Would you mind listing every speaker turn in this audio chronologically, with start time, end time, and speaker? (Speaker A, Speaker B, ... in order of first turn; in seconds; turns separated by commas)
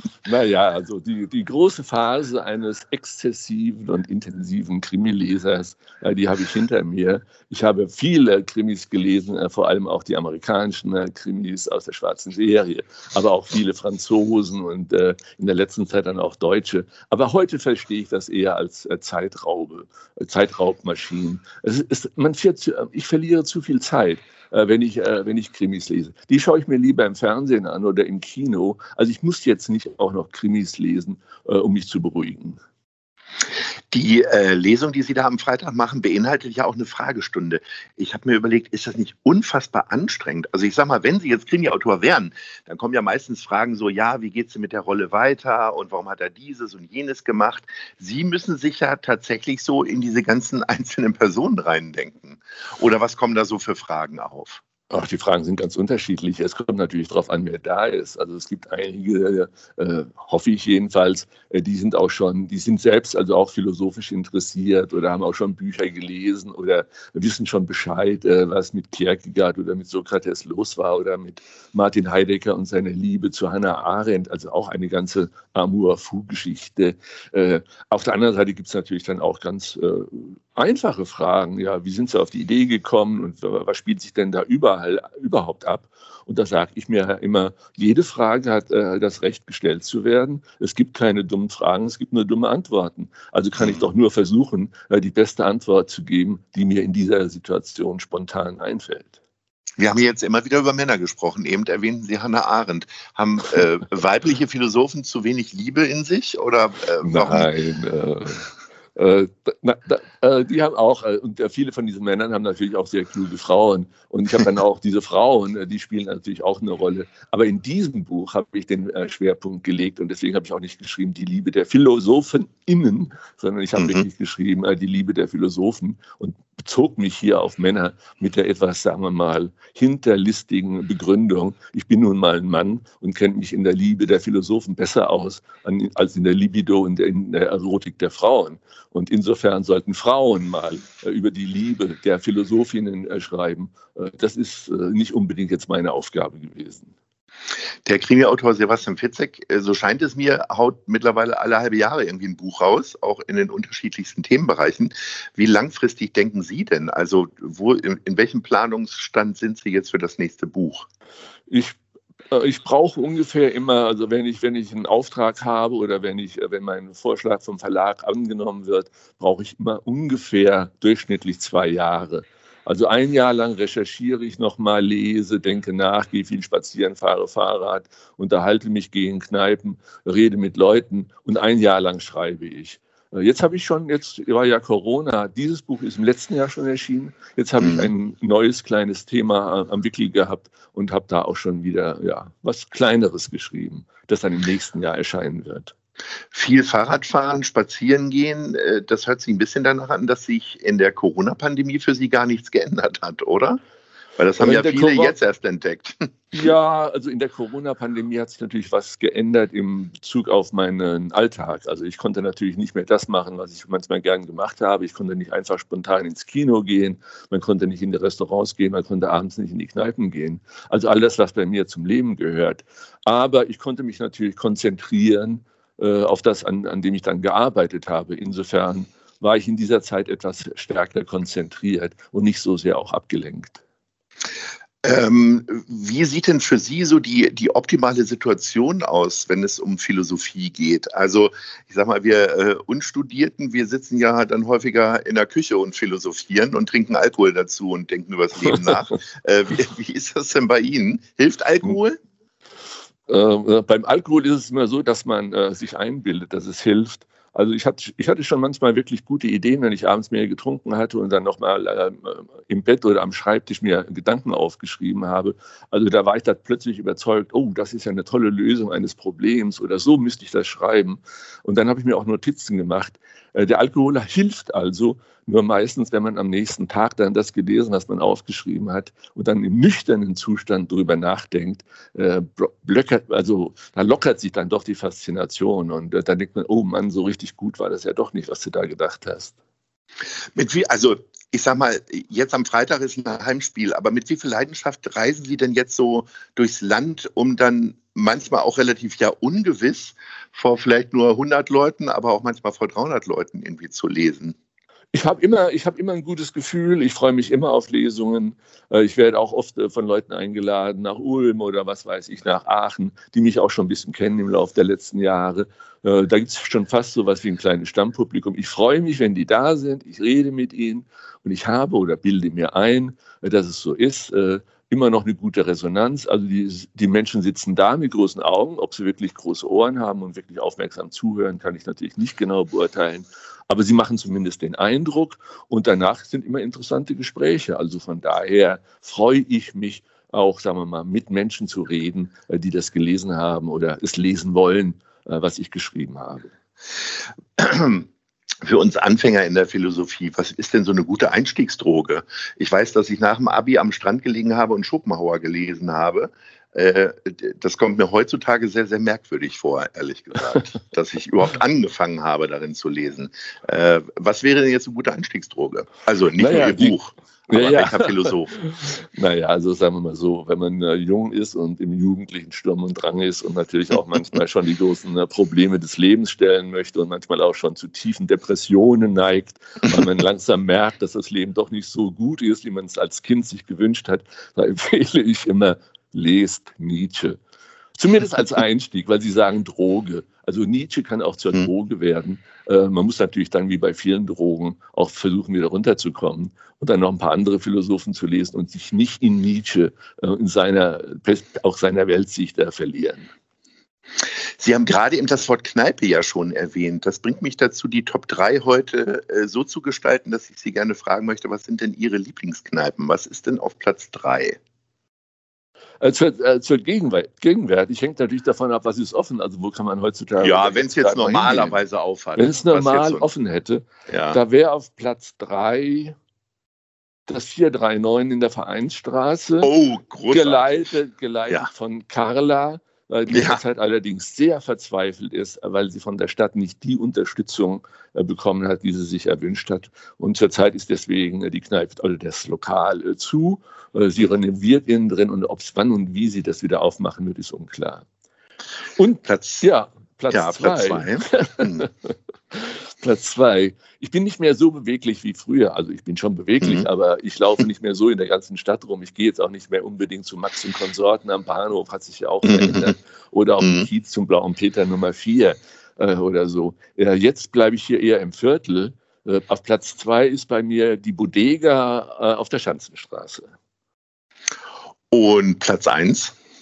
Speaker A: 0.2-32.6, Speaker B: 33.9-54.6, Speaker A: 54.9-99.2, Speaker B: 93.6-93.8, Speaker B: 99.8-107.5, Speaker A: 107.0-146.9, Speaker B: 123.8-124.0, Speaker B: 147.8-160.8, Speaker A: 161.5-161.8, Speaker A: 162.3-195.7, Speaker B: 187.6-187.9, Speaker B: 196.3-203.6, Speaker B: 204.2-206.1, Speaker A: 204.4-205.2, Speaker A: 206.3-233.6, Speaker B: 234.8-252.0, Speaker A: 253.1-289.3, Speaker B: 290.3-304.3, Speaker A: 304.9-346.3, Speaker B: 347.4-347.9, Speaker B: 348.4-368.3, Speaker A: 366.2-366.8, Speaker A: 367.3-387.2, Speaker A: 387.8-403.1, Speaker B: 404.4-414.4, Speaker A: 415.8-421.6, Speaker B: 420.2-423.1, Speaker A: 422.1-425.9, Speaker B: 423.9-424.2, Speaker A: 427.1-429.5, Speaker B: 429.4-430.7, Speaker A: 430.1-447.9, Speaker B: 433.1-433.4, Speaker A: 448.7-473.3, Speaker B: 449.0-449.5, Speaker B: 450.1-451.7, Speaker B: 456.4-456.7, Speaker B: 462.2-462.7, Speaker B: 463.4-463.7, Speaker B: 474.9-476.1